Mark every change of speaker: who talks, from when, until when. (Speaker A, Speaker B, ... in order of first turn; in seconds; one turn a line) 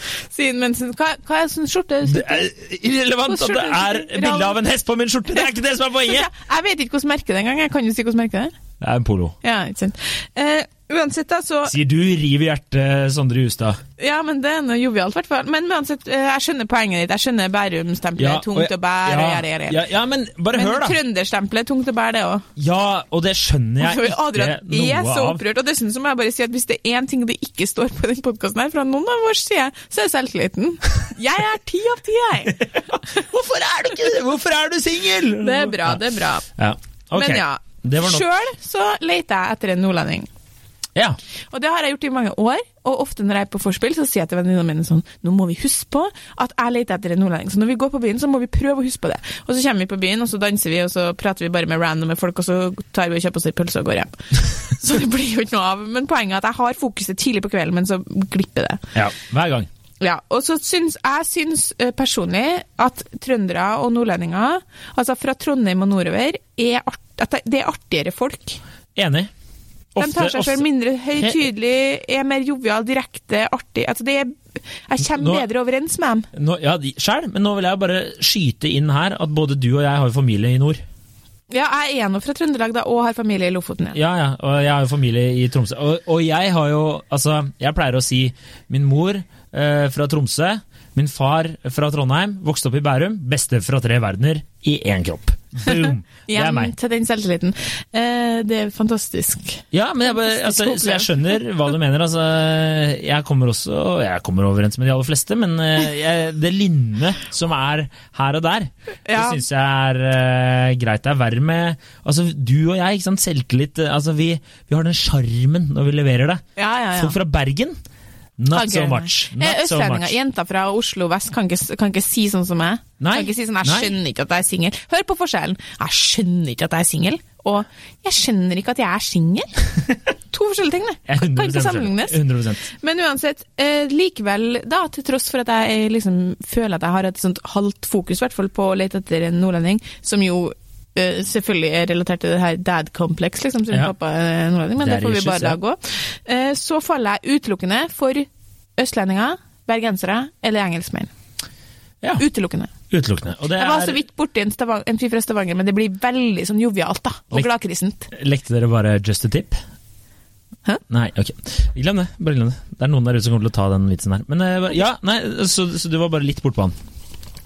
Speaker A: 0.3-2.5
Speaker B: 2.0-6.3
Speaker A: 3.3-4.6
Speaker A: 6.0-8.5
Speaker B: 8.8-9.4
Speaker A: 9.4-11.7
Speaker B: 11.7-13.8
Speaker A: 14.0-19.8
Speaker B: 18.2-21.0
Speaker A: 20.5-22.5
Speaker B: 22.6-25.4
Speaker A: 23.8-32.7
Speaker B: 32.5-36.0
Speaker A: 35.4-36.5
Speaker B: 36.6-38.2
Speaker A: 37.1-40.3
Speaker A: 41.5-58.8
Speaker B: 58.9-59.7
Speaker A: 60.0-68.6
Speaker B: 69.0-69.3
Speaker B: 70.0-70.7
Speaker A: 70.0-76.3
Speaker B: 75.1-75.5
Speaker B: 76.3-80.8
Speaker A: 81.5-84.0
Speaker B: 83.9-96.7
Speaker A: 95.7-101.4
Speaker B: 99.7-116.4
Speaker A: 109.1-109.4
Speaker A: 116.6-117.2
Speaker B: 117.0-117.8
Speaker B: 118.4-120.1
Speaker A: 118.5-129.5
Speaker B: 123.0-124.0
Speaker A: 130.3-151.1
Speaker B: 131.1-132.7
Speaker B: 144.8-145.6
Speaker A: 152.2-152.7
Speaker B: 152.9-154.0
Speaker A: 153.6-158.1
Speaker B: 158.1-159.6
Speaker B: 160.9-166.8